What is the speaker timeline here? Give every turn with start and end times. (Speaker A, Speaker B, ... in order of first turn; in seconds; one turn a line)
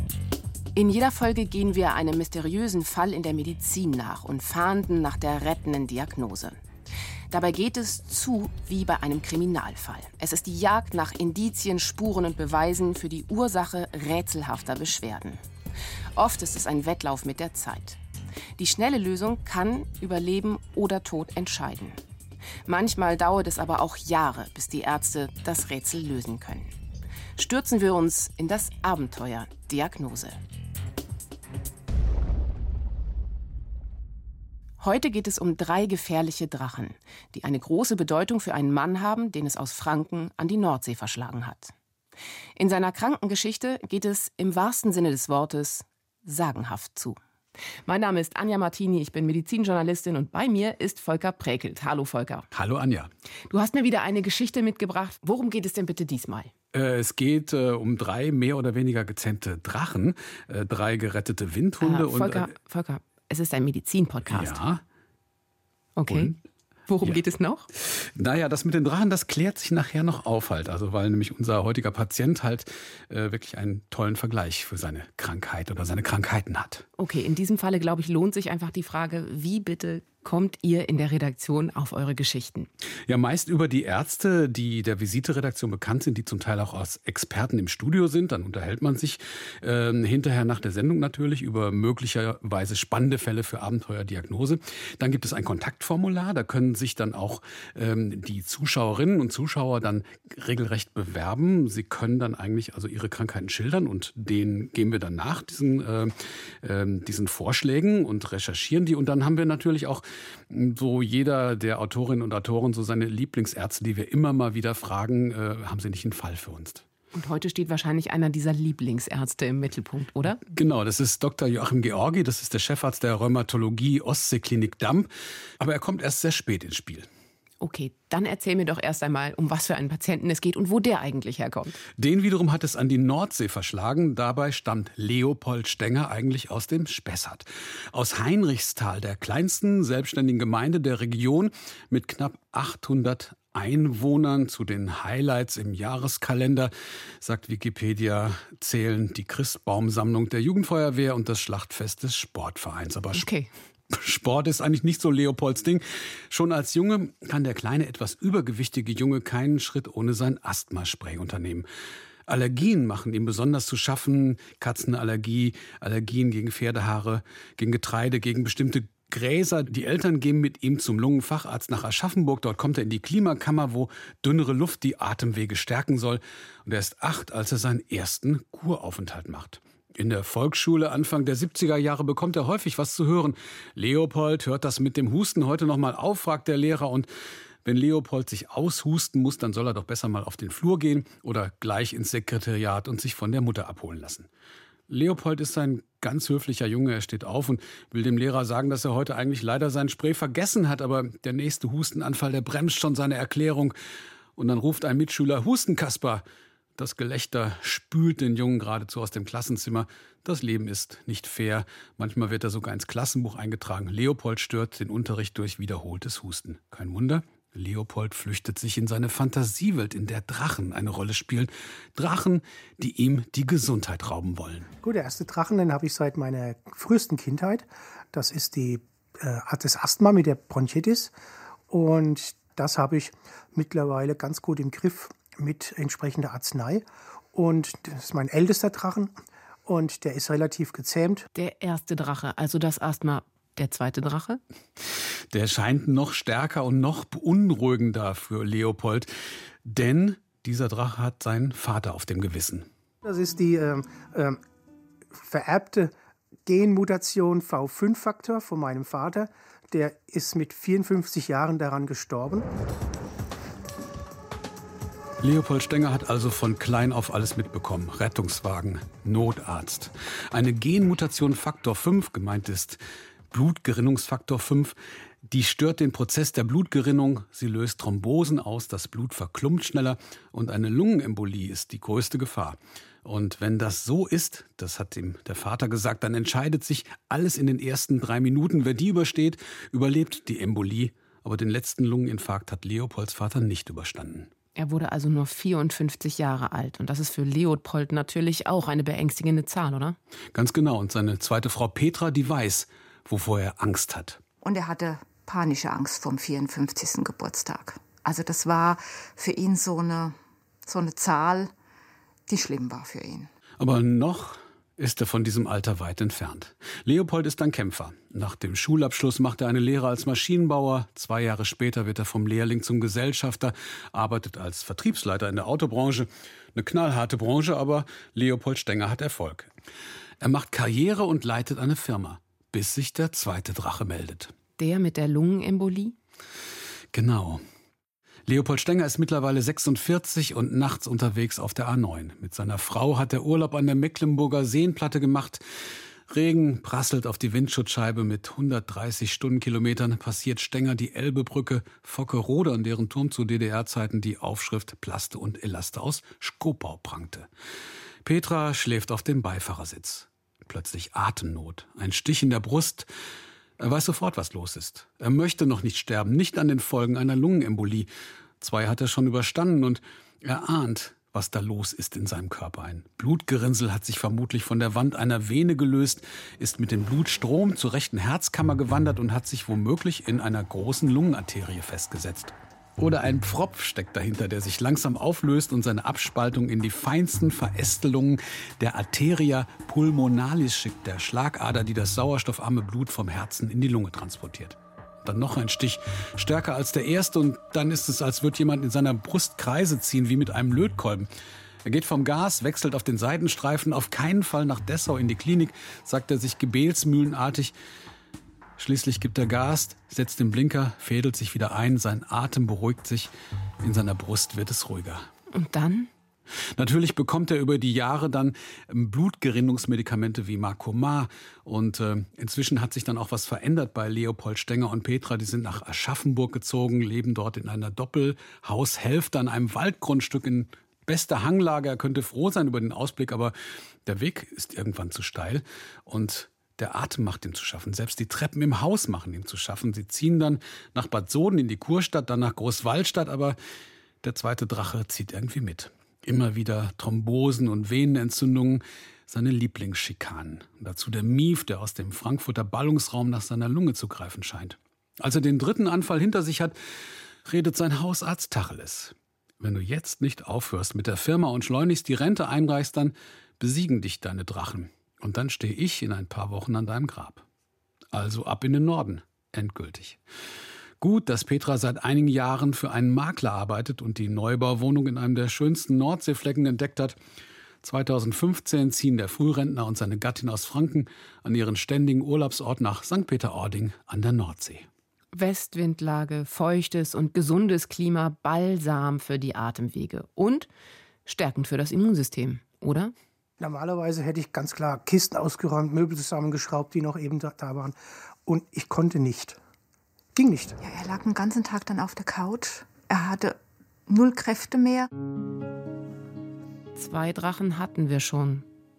Speaker A: 0.7-6.6
Speaker A: 7.3-15.4
Speaker A: 16.1-18.0
Speaker A: 18.6-22.0
Speaker A: 22.6-26.7
Speaker A: 27.4-30.4
Speaker A: 34.8-41.7
Speaker A: 42.5-47.2
Speaker A: 47.9-52.5
Speaker B: 52.5-53.1
Speaker A: 53.5-56.5
Speaker B: 56.7-62.5
Speaker A: 61.8-64.6
Speaker B: 64.3-64.8
Speaker A: 66.0-66.3
Speaker B: 66.1-66.4
Speaker A: 66.9-67.7
Speaker B: 67.8-76.8
Speaker A: 77.0-82.7
Speaker B: 83.1-116.8
Speaker A: 117.1-120.4
Speaker B: 120.5-125.1
Speaker B: 125.6-127.1
Speaker A: 127.6-131.7
Speaker B: 131.9-153.3
Speaker A: 153.1-153.5
Speaker B: 153.9-161.7
Speaker B: 162.3-187.1
Speaker B: 187.6-194.3
Speaker B: 194.9-203.7
Speaker B: 204.3-206.2
Speaker B: 206.8-224.7
Speaker C: 224.8-231.1
Speaker C: 231.7-239.1
Speaker C: 239.7-241.3
Speaker A: 241.3-244.4
Speaker B: 245.3-249.1
Speaker B: 249.6-252.7
Speaker C: 253.0-254.4
Speaker C: 255.1-255.9
Speaker C: 256.4-262.5
Speaker B: 265.2-272.8
Speaker B: 273.3-274.7
Speaker B: 275.3-294.3
Speaker A: 294.6-300.0
Speaker B: 300.3-304.2
Speaker D: 304.4-311.5
Speaker D: 312.3-313.3
Speaker B: 313.6-329.5
Speaker B: 330.2-334.3
Speaker A: 334.6-335.9
Speaker B: 336.9-337.4
Speaker B: 338.3-345.4
Speaker B: 346.1-357.3
Speaker B: 358.0-362.9
Speaker B: 363.6-367.9
Speaker B: 368.4-401.1
Speaker B: 401.6-407.5
Speaker B: 408.6-415.1
Speaker A: 415.3-415.9
Speaker B: 416.6-433.3
Speaker B: 433.9-443.4
Speaker B: 444.0-456.6
Speaker B: 457.2-467.2
Speaker B: 467.9-470.0
Speaker B: 470.8-477.0
Speaker B: 477.6-484.7
Speaker A: 485.1-490.5
Speaker A: 491.1-492.9
Speaker C: 493.4-499.4
Speaker C: 500.1-500.6
Speaker D: 500.6-504.9
Speaker A: 506.7-508.4